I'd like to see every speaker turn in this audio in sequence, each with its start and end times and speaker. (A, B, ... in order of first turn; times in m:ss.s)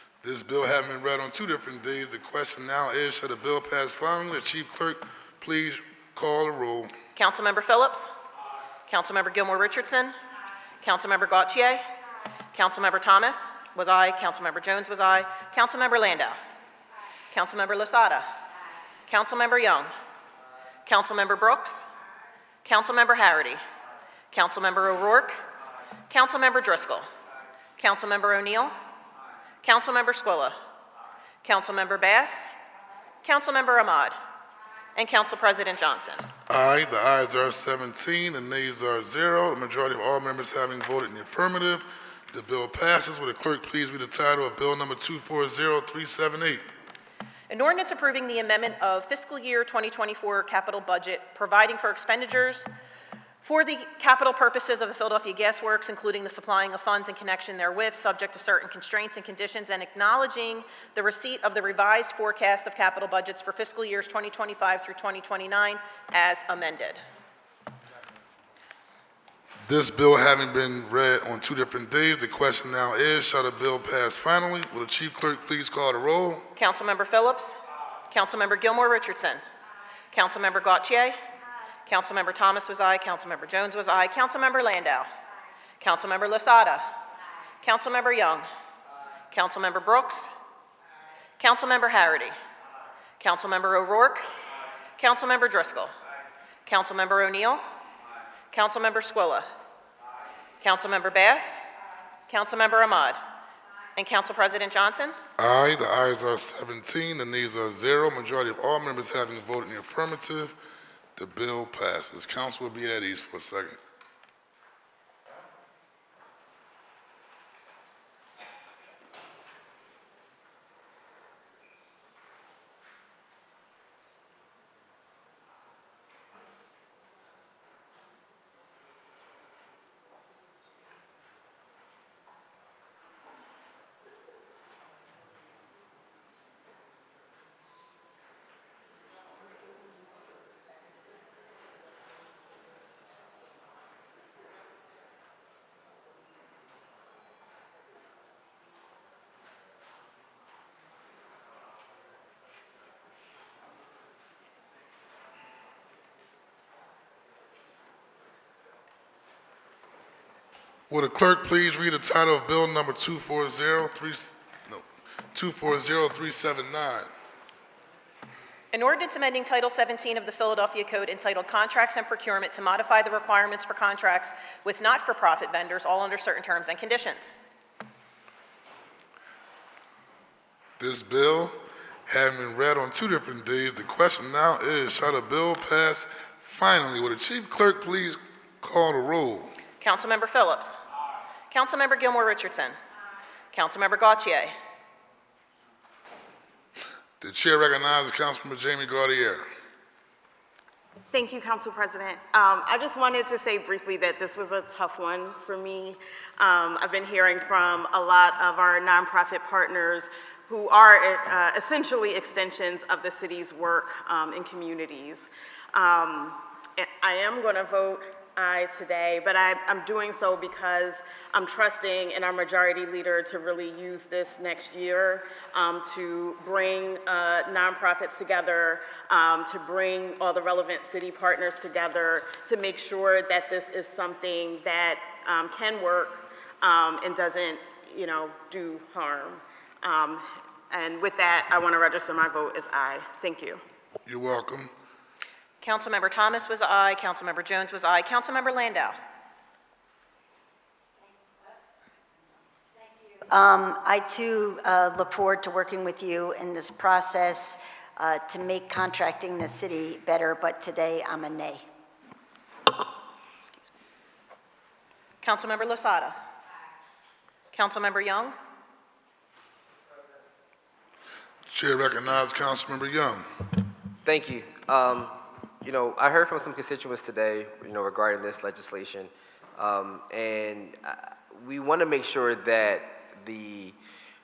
0:00.2-0:06.9 A
0:07.1-0:08.1 B
0:08.9-0:10.1 B
0:10.8-0:11.8 B
0:12.5-0:16.4 B
0:17.3-0:18.3 B
0:19.1-0:19.9 B
0:20.8-0:21.8 B
0:22.6-0:23.6 B
0:24.3-0:25.4 B
0:26.1-0:27.1 B
0:27.8-0:28.7 B
0:29.6-0:30.6 B
0:31.4-0:32.5 B
0:33.2-0:34.1 B
0:35.0-0:36.2 B
0:36.5-0:46.6 A
0:47.5-0:52.7 B
0:53.4-1:07.0 B
1:09.6-1:16.5 A
1:16.6-1:17.6 B
1:18.1-1:19.4 B
1:20.1-1:21.2 B
1:21.9-1:25.1 B
1:25.8-1:26.8 B
1:27.6-1:28.4 B
1:29.3-1:30.3 B
1:31.4-1:32.4 B
1:33.2-1:34.3 B
1:35.0-1:35.9 B
1:36.6-1:37.6 B
1:38.5-1:39.5 B
1:40.6-1:41.6 B
1:42.3-1:43.2 B
1:44.0-1:45.2 B
1:45.4-1:50.5 A
1:51.2-1:53.8 A
2:40.9-2:47.1 A
2:48.7-2:57.3 B
3:00.8-3:01.5 A
3:02.1-3:09.5 A
3:09.8-3:10.8 B
3:11.5-3:12.8 B
3:13.5-3:14.5 B
3:17.2-3:19.4 A
3:21.1-4:03.6 C
4:04.0-4:04.7 A
4:05.6-4:08.9 B
4:12.8-4:21.6 D
4:25.2-4:26.1 B
4:27.5-4:28.3 B
4:31.4-4:33.3 A
4:34.0-4:43.8 E